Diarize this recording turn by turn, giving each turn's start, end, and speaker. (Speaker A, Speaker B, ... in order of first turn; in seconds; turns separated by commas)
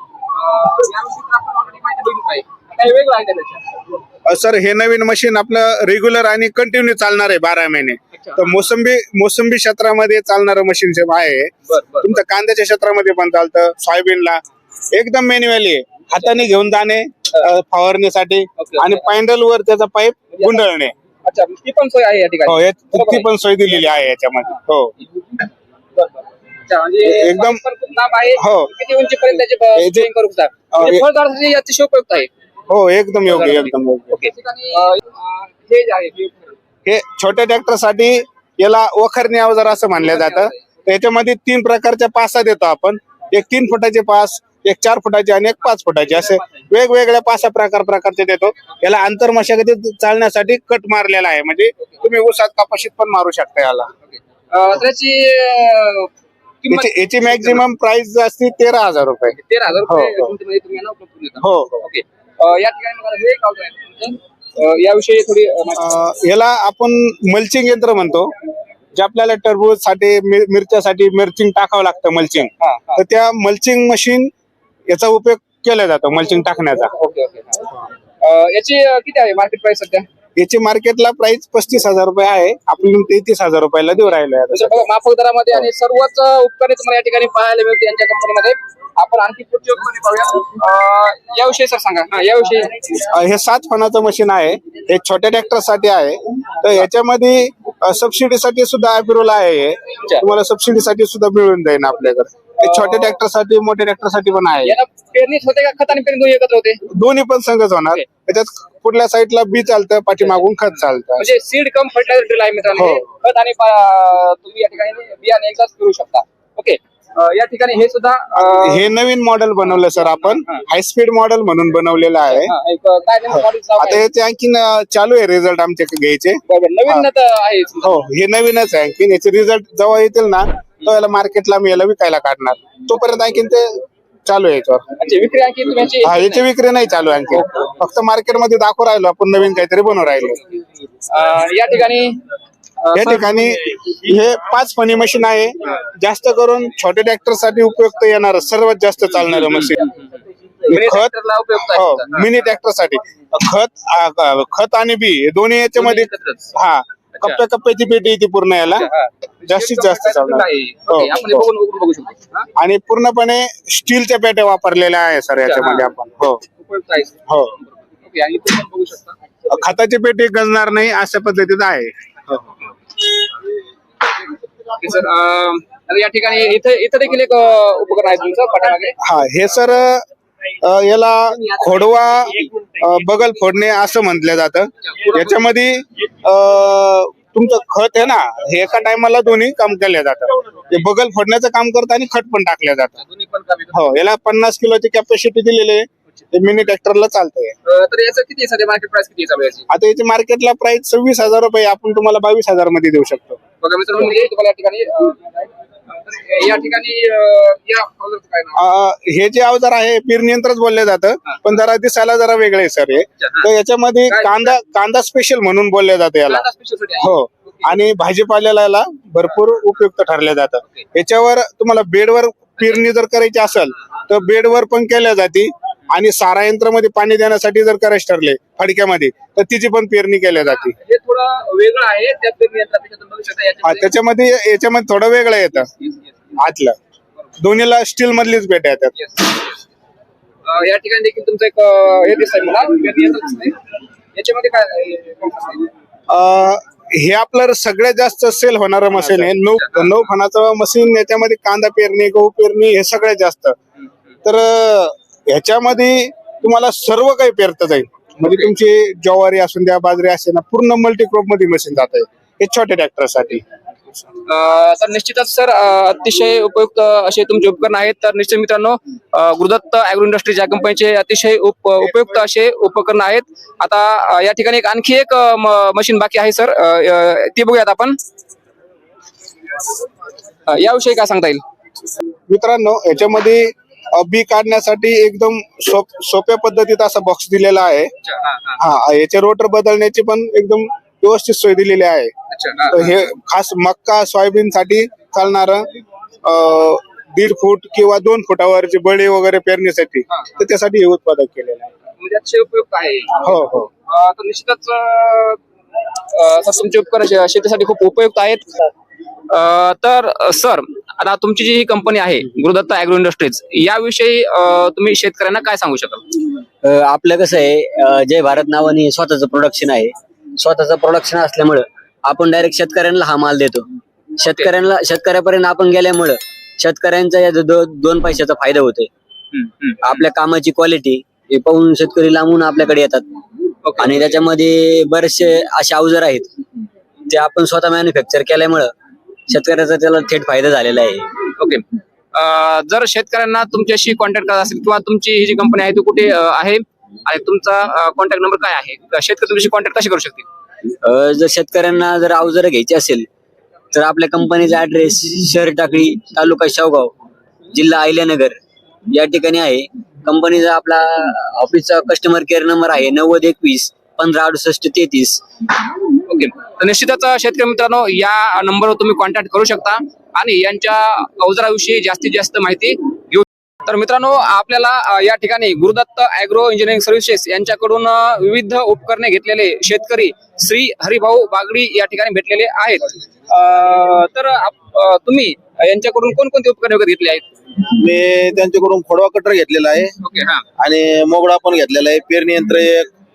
Speaker A: 0.3-3.8, Speaker B: 4.3-11.5, Speaker A: 8.2-8.7, Speaker A: 11.7-12.2, Speaker B: 12.0-14.4, Speaker B: 14.9-20.9, Speaker A: 18.6-19.1, Speaker A: 20.4-20.6, Speaker A: 21.2-23.3, Speaker B: 22.4-24.9, Speaker A: 25.9-32.3, Speaker B: 27.0-27.6, Speaker B: 28.4-28.7, Speaker B: 29.8-30.1, Speaker B: 30.7-31.1, Speaker B: 32.7-34.2, Speaker A: 33.3-36.6, Speaker B: 36.8-53.9, Speaker A: 40.0-40.6, Speaker A: 54.1-56.1, Speaker A: 56.6-57.6, Speaker B: 56.7-59.3, Speaker A: 59.3-65.9, Speaker B: 59.9-60.3, Speaker B: 61.4-61.8, Speaker B: 65.8-68.3, Speaker B: 68.9-74.3, Speaker A: 72.6-73.0, Speaker B: 74.9-76.9, Speaker A: 76.9-80.0, Speaker B: 80.4-84.8, Speaker A: 84.5-92.9, Speaker B: 93.1-104.7, Speaker A: 102.6-103.2, Speaker A: 104.6-106.8, Speaker B: 106.9-111.3, Speaker A: 111.2-118.9, Speaker B: 112.8-113.0, Speaker B: 118.4-122.5, Speaker A: 119.7-120.6, Speaker A: 122.2-124.0, Speaker B: 123.4-127.1, Speaker A: 126.5-128.0, Speaker B: 127.8-134.8, Speaker A: 135.0-136.4, Speaker B: 136.0-140.4, Speaker A: 137.3-137.7, Speaker A: 141.0-142.2, Speaker A: 142.8-143.3, Speaker B: 142.9-149.8, Speaker A: 149.3-150.2, Speaker B: 150.7-151.1, Speaker A: 150.7-152.4, Speaker B: 151.6-158.9, Speaker A: 155.8-156.5, Speaker A: 158.7-162.5, Speaker B: 159.5-161.4, Speaker B: 162.6-166.4, Speaker A: 165.4-165.9, Speaker A: 166.6-169.2, Speaker B: 167.3-167.5, Speaker B: 169.5-172.3, Speaker A: 174.8-179.0, Speaker B: 179.0-180.0, Speaker B: 180.6-193.0, Speaker A: 184.9-185.3, Speaker A: 193.0-194.0, Speaker B: 193.7-197.5, Speaker A: 197.7-199.7, Speaker B: 199.7-203.4, Speaker A: 203.6-208.6, Speaker B: 208.5-216.4, Speaker A: 213.2-213.5, Speaker A: 214.1-214.6, Speaker A: 216.2-217.7, Speaker B: 217.0-230.7, Speaker A: 230.4-233.9, Speaker B: 233.6-235.7, Speaker B: 236.4-236.8, Speaker B: 237.4-238.9, Speaker A: 238.9-239.6, Speaker A: 240.5-243.6, Speaker A: 244.2-245.7, Speaker B: 246.1-253.6, Speaker A: 248.9-249.9, Speaker B: 254.2-263.4, Speaker A: 258.2-258.5, Speaker A: 264.2-278.0, Speaker A: 280.5-281.4, Speaker B: 282.3-287.9, Speaker A: 288.0-288.6, Speaker B: 288.6-292.1, Speaker A: 292.3-293.0, Speaker B: 292.7-295.6, Speaker B: 296.2-301.7, Speaker A: 302.0-305.4, Speaker B: 303.2-303.7, Speaker A: 306.1-308.5, Speaker A: 309.3-316.1, Speaker C: 316.6-323.6, Speaker C: 324.2-328.9, Speaker A: 324.2-324.5, Speaker A: 329.3-330.0, Speaker C: 329.8-333.1, Speaker A: 333.6-334.1, Speaker C: 333.8-336.4, Speaker C: 337.1-338.7, Speaker C: 339.3-341.1, Speaker A: 341.4-350.2, Speaker C: 350.8-353.1, Speaker C: 353.7-356.9, Speaker C: 357.5-358.4, Speaker C: 358.9-365.2, Speaker A: 366.1-387.2, Speaker D: 387.8-389.9, Speaker A: 390.0-390.4, Speaker D: 390.6-392.9